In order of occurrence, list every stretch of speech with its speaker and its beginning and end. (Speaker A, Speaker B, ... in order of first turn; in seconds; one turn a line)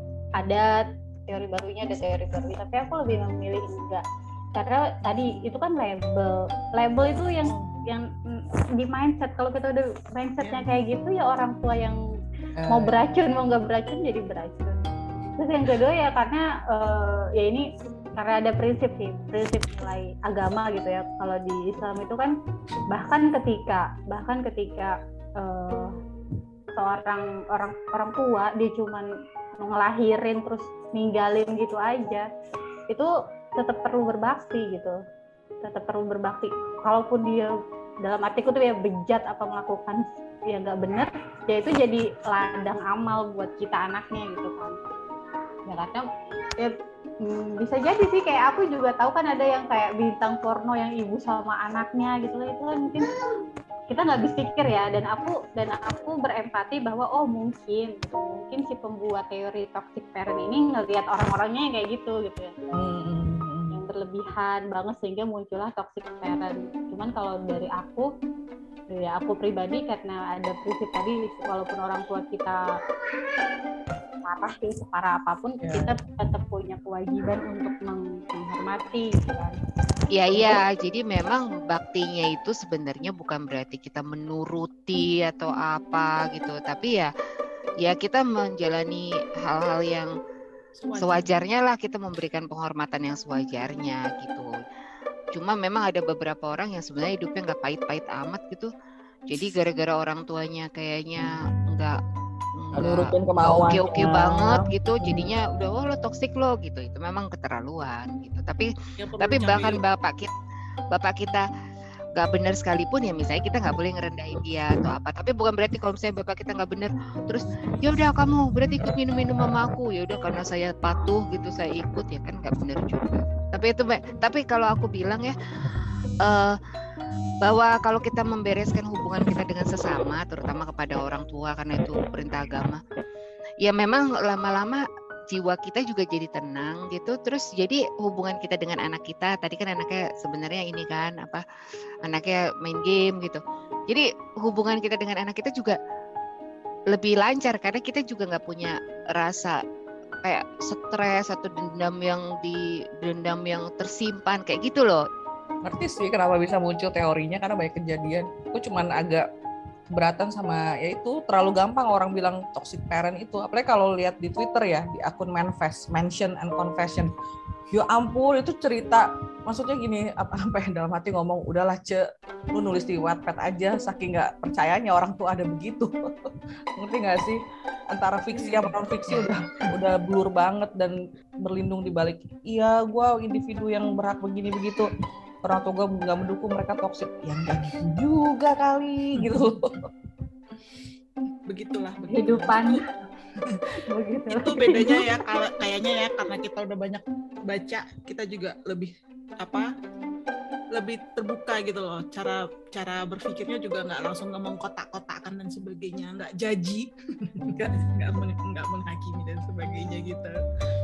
Speaker A: 0.4-4.0
Speaker A: 4.5-12.0
Speaker B: 10.4-10.7
Speaker C: 12.6-12.9
Speaker A: 12.7-14.8
Speaker A: 15.4-22.3
Speaker A: 22.9-25.9
Speaker A: 26.8-29.1
Speaker A: 29.6-32.2
Speaker A: 32.9-35.0
Speaker A: 35.6-37.5
Speaker A: 38.0-44.7
Speaker A: 45.7-46.1
Speaker A: 46.6-53.1
Speaker A: 53.9-62.5
Speaker C: 62.7-63.8
Speaker A: 63.7-68.1
Speaker A: 68.9-72.7
Speaker A: 74.2-79.5
Speaker C: 75.6-76.0
Speaker D: 80.1-87.1
Speaker D: 87.8-90.1
Speaker B: 90.8-91.4
Speaker D: 91.0-94.5
Speaker D: 95.3-98.7
Speaker D: 99.3-102.0
Speaker D: 102.5-110.3
Speaker C: 102.8-105.2
Speaker B: 109.0-109.8
Speaker D: 110.9-111.4
Speaker D: 112.2-125.4
Speaker D: 126.2-126.6
Speaker D: 127.4-132.8
Speaker D: 133.6-141.4
Speaker D: 142.0-145.8
Speaker D: 146.9-149.6
Speaker D: 150.2-155.0
Speaker C: 155.6-159.2
Speaker C: 159.9-167.1
Speaker C: 167.7-177.4
Speaker C: 177.9-184.9
Speaker B: 178.3-179.3
Speaker C: 185.4-189.9
Speaker B: 191.5-192.8
Speaker A: 192.1-192.8
Speaker A: 193.9-195.0
Speaker B: 194.3-199.7
Speaker B: 200.7-210.3